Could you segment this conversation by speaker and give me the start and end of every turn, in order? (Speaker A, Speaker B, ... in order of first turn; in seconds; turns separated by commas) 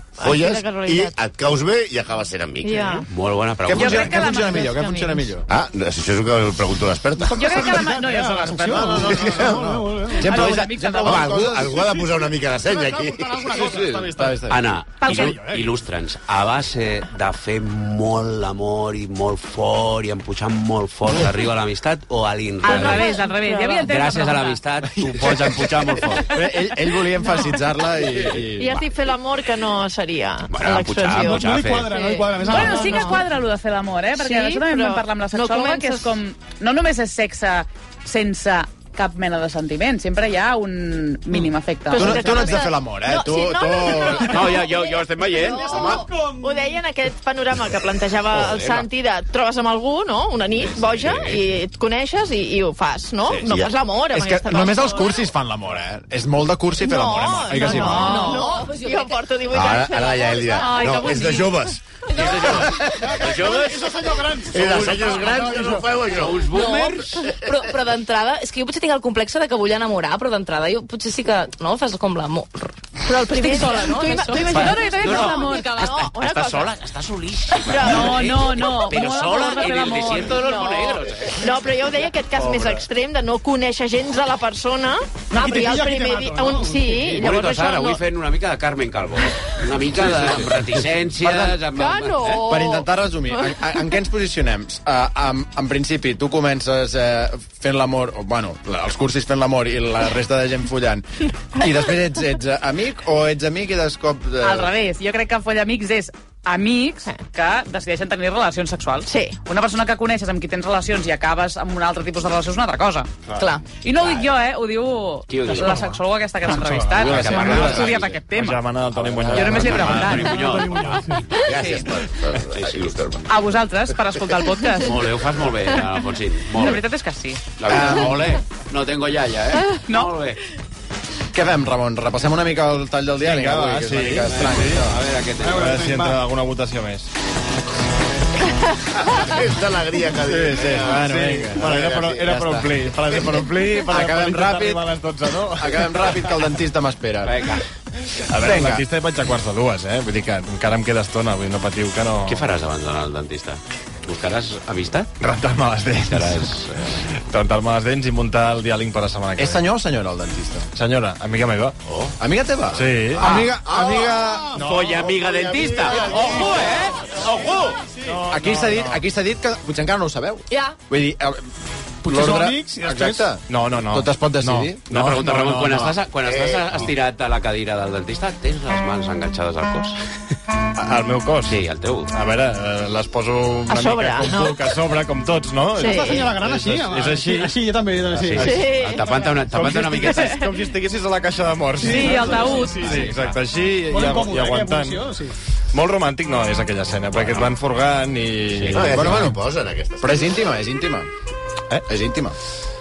Speaker A: 0.2-3.0, Speaker B: 0.2-1.1, Speaker B: 2.6-3.0, Speaker C: 3.1-4.4, Speaker D: 3.6-5.5, Speaker E: 3.7-5.2, Speaker A: 5.5-7.7, Speaker F: 7.2-10.7, Speaker E: 7.3-9.5, Speaker D: 8.8-11.5, Speaker E: 10.2-11.5, Speaker A: 11.0-13.7, Speaker F: 11.2-14.4, Speaker D: 13.6-14.6, Speaker C: 14.5-26.3, Speaker E: 15.0-15.3, Speaker F: 15.0-15.7, Speaker E: 22.6-24.6, Speaker B: 22.6-23.9, Speaker D: 25.0-28.9, Speaker B: 27.2-27.5, Speaker B: 28.6-33.2, Speaker C: 30.5-31.9, Speaker F: 31.1-33.2, Speaker E: 32.4-42.6, Speaker B: 34.1-36.2, Speaker B: 41.9-55.2, Speaker D: 41.9-44.5, Speaker C: 44.2-45.9, Speaker F: 45.5-46.8, Speaker C: 48.3-48.8, Speaker C: 50.5-51.4, Speaker A: 53.4-53.7, Speaker D: 54.1-58.3, Speaker B: 56.8-61.0, Speaker E: 57.8-58.4, Speaker G: 58.0-59.2, Speaker A: 59.5-62.6, Speaker E: 60.5-61.6, Speaker C: 62.1-64.0, Speaker F: 62.8-65.9, Speaker A: 64.5-66.7, Speaker C: 64.6-65.2, Speaker C: 66.1-67.2, Speaker G: 66.5-75.3, Speaker B: 73.0-76.7, Speaker E: 74.2-75.7, Speaker C: 74.5-81.5, Speaker B: 77.6-78.3, Speaker E: 77.8-80.5, Speaker B: 80.3-88.0, Speaker H: 82.3-82.8, Speaker F: 85.3-87.3, Speaker C: 87.2-92.5, Speaker D: 90.1-90.4, Speaker D: 91.2-91.6, Speaker B: 91.7-92.9, Speaker D: 92.5-101.0, Speaker D: 101.5-104.7, Speaker E: 104.4-113.1, Speaker B: 109.1-109.4, Speaker G: 113.4-113.7, Speaker E: 113.7-118.6, Speaker C: 115.3-115.9, Speaker F: 115.5-115.9, Speaker F: 116.5-117.0, Speaker C: 116.9-118.2, Speaker H: 117.0-120.3, Speaker C: 118.9-121.4, Speaker E: 119.3-120.4, Speaker F: 120.0-121.2, Speaker A: 121.4-123.2, Speaker E: 121.5-121.8, Speaker C: 122.5-122.9, Speaker E: 123.3-125.0, Speaker C: 124.8-126.8, Speaker E: 126.5-127.6, Speaker C: 127.6-130.4, Speaker D: 127.7-128.2, Speaker E: 129.9-130.1, Speaker D: 131.3-135.0, Speaker H: 133.2-137.1, Speaker C: 134.3-135.7, Speaker F: 135.4-136.2, Speaker A: 139.1-142.4, Speaker H: 140.2-146.3, Speaker D: 140.4-142.7, Speaker D: 143.9-144.8, Speaker D: 145.6-147.4, Speaker C: 147.2-147.6, Speaker D: 148.3-148.8, Speaker H: 148.3-152.5, Speaker C: 152.2-155.1, Speaker H: 155.2-156.5, Speaker C: 156.1-157.1, Speaker H: 157.3-159.7, Speaker D: 159.4-160.7, Speaker H: 160.7-161.8, Speaker D: 162.2-164.6, Speaker H: 162.7-163.4, Speaker C: 163.2-163.5, Speaker A: 163.3-166.8, Speaker H: 164.5-165.2, Speaker C: 164.6-167.8, Speaker F: 166.1-166.4, Speaker F: 167.8-168.2, Speaker H: 168.0-169.0, Speaker D: 168.3-171.4, Speaker F: 172.0-173.3, Speaker D: 172.0-175.1, Speaker H: 173.5-175.9, Speaker C: 174.9-180.0, Speaker A: 176.2-176.9, Speaker H: 180.8-187.6, Speaker C: 181.4-182.1, Speaker B: 183.7-184.8, Speaker B: 185.8-186.2, Speaker F: 185.8-188.6, Speaker C: 188.2-190.4, Speaker H: 188.2-195.0, Speaker B: 188.4-189.3, Speaker B: 190.0-190.5, Speaker F: 191.8-193.1, Speaker E: 191.8-192.9, Speaker F: 193.9-195.3, Speaker H: 195.7-199.3, Speaker C: 197.1-197.5, Speaker C: 198.6-198.9, Speaker A: 198.7-200.3, Speaker D: 198.8-199.3, Speaker D: 200.0-201.1, Speaker D: 201.7-202.3